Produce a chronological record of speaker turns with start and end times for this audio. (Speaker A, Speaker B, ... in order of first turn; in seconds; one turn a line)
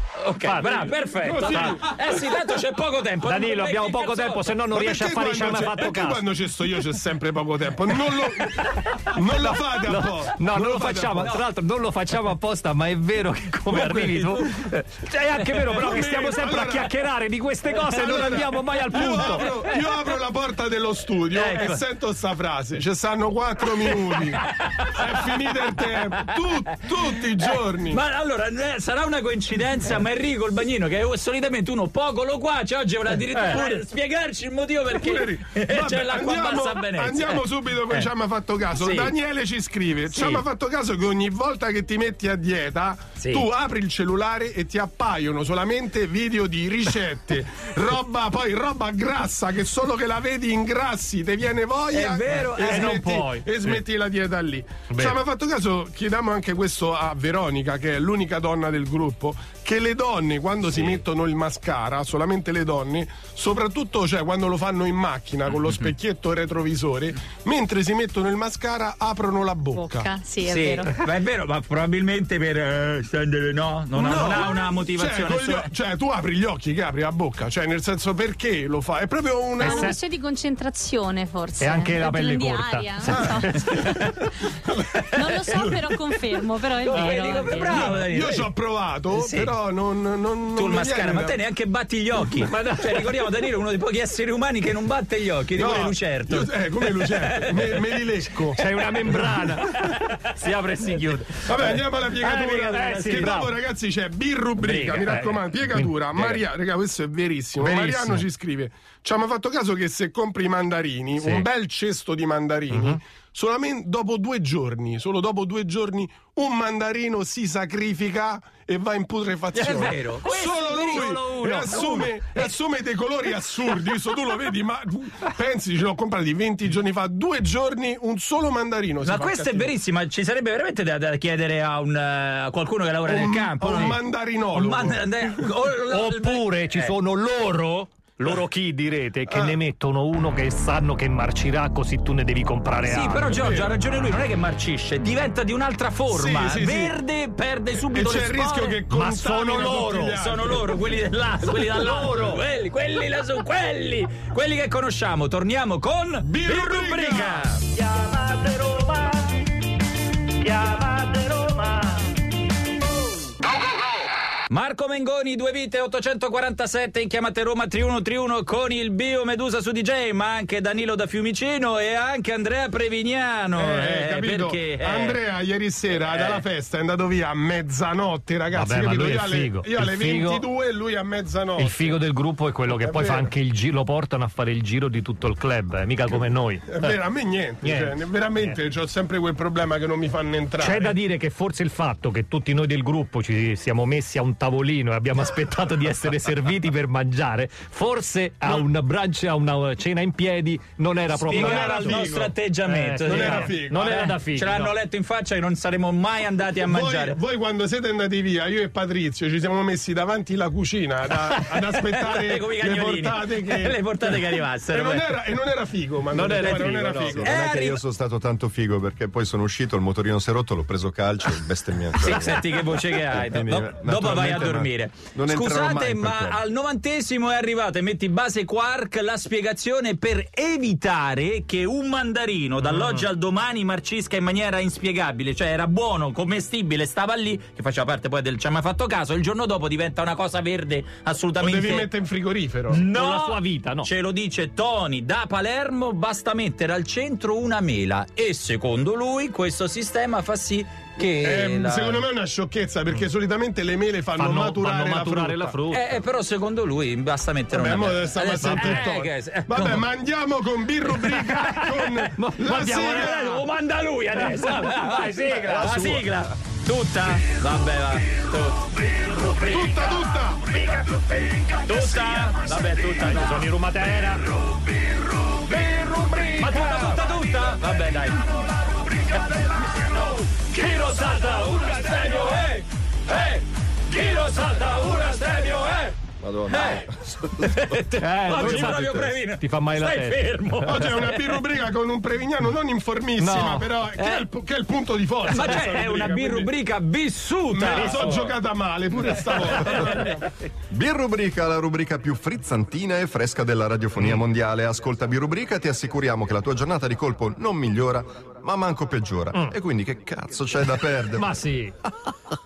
Speaker A: 0.2-4.6
Speaker B: 0.4-1.8
Speaker C: 1.2-1.9
Speaker B: 3.2-6.3
Speaker C: 4.7-11.4
Speaker B: 8.2-19.6
Speaker A: 13.7-14.8
Speaker A: 15.3-15.9
Speaker C: 15.7-17.0
Speaker A: 17.8-18.4
Speaker C: 17.8-24.4
Speaker A: 19.0-19.9
Speaker A: 21.3-21.8
Speaker A: 23.7-25.4
Speaker C: 24.9-28.0
Speaker A: 27.4-38.1
Speaker B: 33.3-33.8
Speaker C: 34.9-70.1
Speaker A: 38.7-39.1
Speaker A: 40.1-40.4
Speaker A: 43.2-43.5
Speaker A: 51.9-53.5
Speaker B: 52.7-53.0
Speaker B: 54.9-55.1
Speaker D: 69.8-71.0
Speaker A: 70.4-75.7
Speaker C: 73.9-80.0
Speaker B: 79.6-80.0
Speaker D: 79.6-83.7
Speaker B: 81.6-83.8
Speaker C: 83.1-84.0
Speaker A: 83.7-84.3
Speaker A: 84.9-88.5
Speaker D: 85.2-88.0
Speaker C: 85.2-85.9
Speaker C: 87.6-91.4
Speaker A: 89.1-89.5
Speaker A: 90.5-97.9
Speaker B: 92.4-93.1
Speaker C: 95.5-99.6
Speaker B: 98.3-103.5
Speaker A: 99.0-100.0
Speaker C: 101.4-129.7
Speaker A: 101.7-103.3
Speaker A: 104.6-105.1
Speaker B: 105.0-106.4
Speaker B: 107.6-108.3
Speaker B: 111.2-111.5
Speaker B: 112.7-113.0
Speaker A: 119.6-122.1
Speaker B: 119.7-122.1
Speaker A: 129.0-134.0
Speaker C: 133.1-135.5
Speaker A: 134.5-136.9
Speaker B: 135.9-143.4
Speaker C: 139.3-139.6
Speaker A: 142.8-148.8
Speaker C: 143.3-143.7
Speaker C: 146.1-146.9
Speaker C: 147.9-150.7
Speaker B: 148.9-150.1
Speaker A: 150.1-157.7
Speaker B: 151.5-152.4
Speaker C: 156.2-157.5
Speaker B: 157.8-159.2
Speaker B: 160.4-162.0
Speaker A: 164.5-175.2
Speaker C: 173.6-182.0
Speaker A: 175.9-176.4
Speaker B: 178.5-180.4
Speaker B: 181.6-187.0
Speaker C: 182.7-183.3
Speaker C: 186.7-190.9
Speaker B: 187.6-188.6
Speaker B: 190.6-202.1
Speaker C: 201.1-202.3
Speaker A: 201.3-207.2
Speaker B: 202.6-204.7
Speaker C: 203.1-204.1
Speaker C: 206.6-217.3
Speaker A: 211.3-215.2
Speaker B: 216.1-217.3
Speaker A: 216.4-217.8
Speaker E: 217.1-226.4
Speaker A: 222.0-241.9
Speaker B: 232.7-233.0
Speaker C: 241.4-242.9
Speaker B: 242.7-243.9
Speaker A: 242.8-252.0
Speaker C: 251.0-255.6
Speaker B: 254.1-256.0
Speaker A: 255.7-259.8
Speaker C: 257.5-263.4
Speaker B: 258.4-258.9
Speaker B: 261.0-263.4
Speaker A: 262.7-269.9
Speaker B: 264.1-266.1
Speaker B: 269.2-269.6
Speaker C: 269.4-270.5
Speaker A: 270.5-271.0
Speaker A: 271.6-273.4
Speaker B: 273.0-274.4
Speaker B: 275.2-277.1
Speaker A: 276.3-278.4
Speaker B: 280.5-282.4
Speaker A: 281.6-286.9
Speaker E: 286.2-287.6
Speaker A: 287.4-291.2
Speaker B: 288.0-290.9
Speaker E: 288.3-289.1
Speaker C: 290.6-296.5
Speaker B: 293.2-293.7
Speaker A: 293.9-294.2
Speaker A: 295.3-298.4
Speaker C: 297.5-300.2
Speaker B: 297.7-298.2
Speaker A: 299.3-300.1
Speaker E: 300.7-311.4
Speaker B: 311.2-311.8